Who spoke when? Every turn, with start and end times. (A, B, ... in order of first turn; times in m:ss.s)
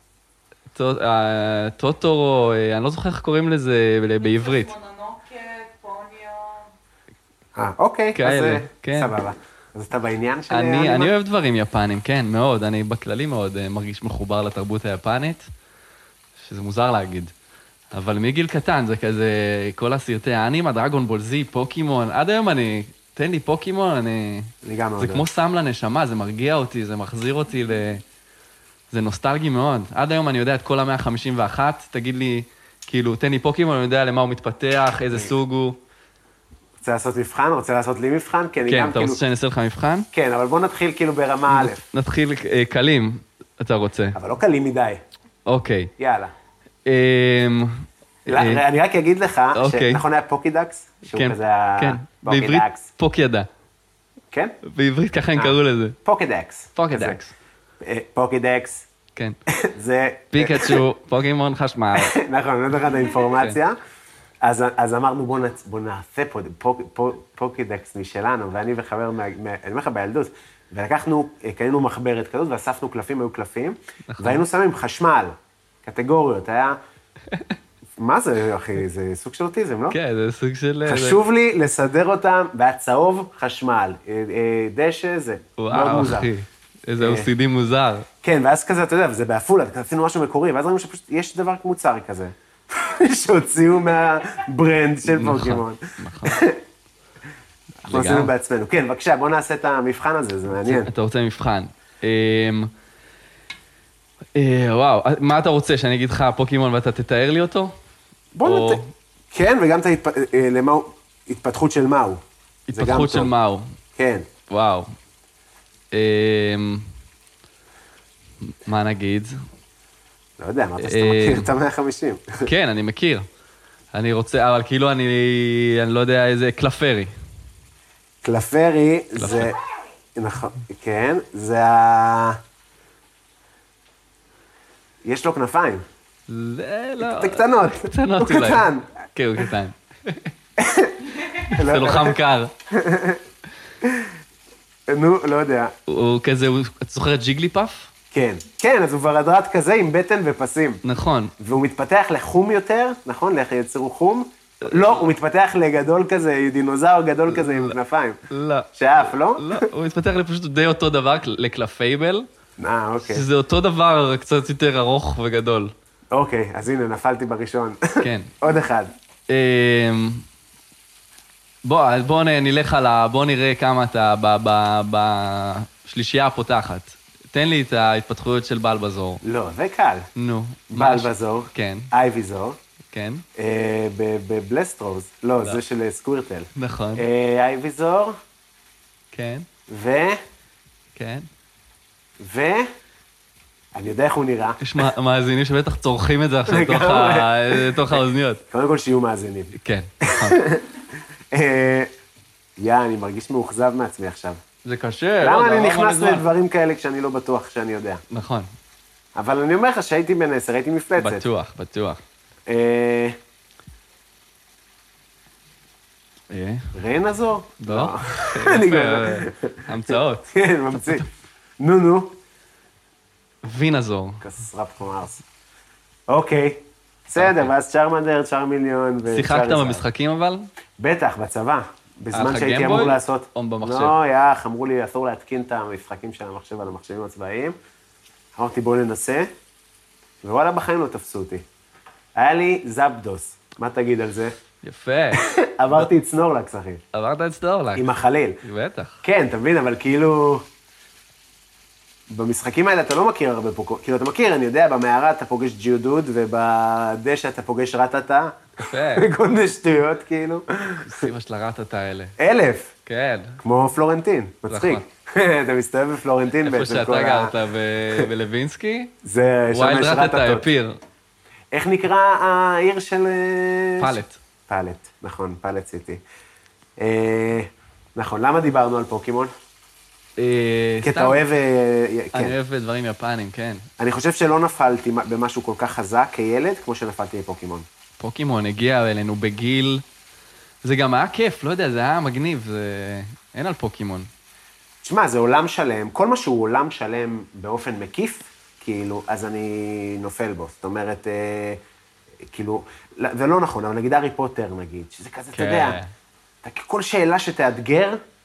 0:00.7-0:04.8 A
0:04.2-0:06.7 B
0:07.6-0:11.1 C
0:08.1-0:09.1 A
0:10.5-0:15.5 A
0:16.4-0:17.3 A
0:17.9-0:28.0 A
0:24.6-0:25.2 C
0:28.9-0:35.8 A
0:36.8-0:39.2 C
0:38.7-0:40.1 A
0:40.1-0:41.8 C
0:41.5-0:44.2 A
0:44.1-0:45.0 C
0:45.4-0:45.9 A
0:46.0-0:46.3 C
0:46.8-0:48.6 A
0:48.3-0:52.9 C
0:49.5-0:50.0 A
0:51.1-0:53.5 A
0:54.3-0:54.6 C
0:54.6-0:56.0 A
0:55.4-0:57.2 C
0:56.8-0:57.3 A
0:57.8-0:58.9 C
0:59.5-1:00.8 C
1:00.3-1:02.2 A
1:02.0-1:03.8 C
1:03.3-1:03.6 A
1:04.4-1:16.8 C
1:14.1-1:14.4 A
1:18.0-1:20.0 C
1:19.9-1:21.2 A
1:20.8-1:26.3 C
1:25.6-1:28.1 A
1:27.0-1:27.3 C
1:28.2-1:36.6 C
1:35.1-1:36.4 A
1:37.8-1:40.9 C
1:37.9-1:38.3 A
1:40.6-1:42.7 A
1:44.3-1:47.7 A
1:48.3-1:52.2 C
1:48.4-1:48.9 A
1:52.7-1:53.7 A
1:52.7-1:53.3 C
1:54.0-1:54.3 C
1:54.5-1:54.9 A
1:55.9-1:56.9 A
1:58.4-1:59.4 A
2:00.4-2:02.5 C
2:00.8-2:01.5 A
2:02.4-2:03.3 A
2:03.9-2:07.1 A
2:08.2-2:09.6 C
2:09.2-2:09.5 A
2:10.1-2:12.4 C
2:15.0-2:15.8 C
2:16.3-2:20.3 A
2:17.0-2:18.9 C
2:20.6-2:22.2 C
2:21.3-2:22.5 A
2:22.7-2:23.2 C
2:23.8-2:24.1 C
2:24.9-2:25.7 C
2:25.9-2:27.9 A
2:28.1-2:30.8 C
2:30.8-2:31.3 A
2:31.4-2:38.2 C
2:34.6-2:35.1 A
2:37.3-2:37.8 A
2:38.3-2:42.3 A
2:38.7-2:39.7 C
2:42.6-2:43.3 C
2:43.0-2:45.7 A
2:46.1-2:48.9 C
2:48.0-2:48.3 A
2:49.3-2:50.2 A
2:51.6-2:59.2 A
2:59.2-3:00.1 C
3:00.1-3:01.9 A
3:00.7-3:02.6 C
3:02.9-3:03.2 A
3:03.4-3:08.2 C
3:06.5-3:07.0 A
3:09.1-3:09.5 A
3:09.7-3:10.2 C
3:10.9-3:11.3 A
3:12.2-3:12.7 C
3:13.7-3:14.6 C
3:14.6-3:18.4 A
3:16.5-3:20.7 C
3:19.5-3:20.4 A
3:21.3-3:21.9 C
3:22.6-3:24.4 C
3:24.6-3:26.3 A
3:25.2-3:28.0 C
3:28.1-3:28.5 A
3:29.1-3:31.2 C
3:31.0-3:32.0 A
3:32.5-3:33.2 C
3:36.3-3:36.7 A
3:36.7-3:41.1 C
3:37.6-3:41.0 A
3:41.6-3:42.2 C
3:43.4-3:44.2 A
3:44.2-3:45.2 C
3:46.1-3:49.8 C
3:47.2-3:47.5 A
3:49.1-3:50.5 A
3:50.8-3:57.6 C
3:52.1-3:54.0 A
3:58.4-3:59.3 C
4:00.2-4:01.4 C
4:02.2-4:04.3 C
4:04.6-4:05.9 A
4:05.1-4:06.8 C
4:06.9-4:07.9 A
4:07.7-4:08.4 C
4:08.4-4:09.0 A
4:09.0-4:10.5 C
4:12.1-4:21.1 C
4:18.6-4:19.1 A
4:20.8-4:22.2 A
4:22.2-4:22.7 C
4:22.8-4:23.4 A
4:23.4-4:27.3 C
4:24.5-4:24.8 A
4:26.4-4:28.9 A
4:29.0-4:30.4 C
4:29.5-4:30.8 A
4:31.5-4:36.0 C
4:33.8-4:34.2 A
4:36.8-4:39.3 C
4:40.2-4:41.2 A
4:40.8-4:42.3 C
4:42.1-4:43.6 A
4:43.8-4:47.7 C
4:48.0-4:49.8 A
4:50.6-4:54.1 A
4:54.8-5:01.6 C
5:02.3-5:05.8 C
5:05.3-5:05.9 A
5:06.4-5:08.0 C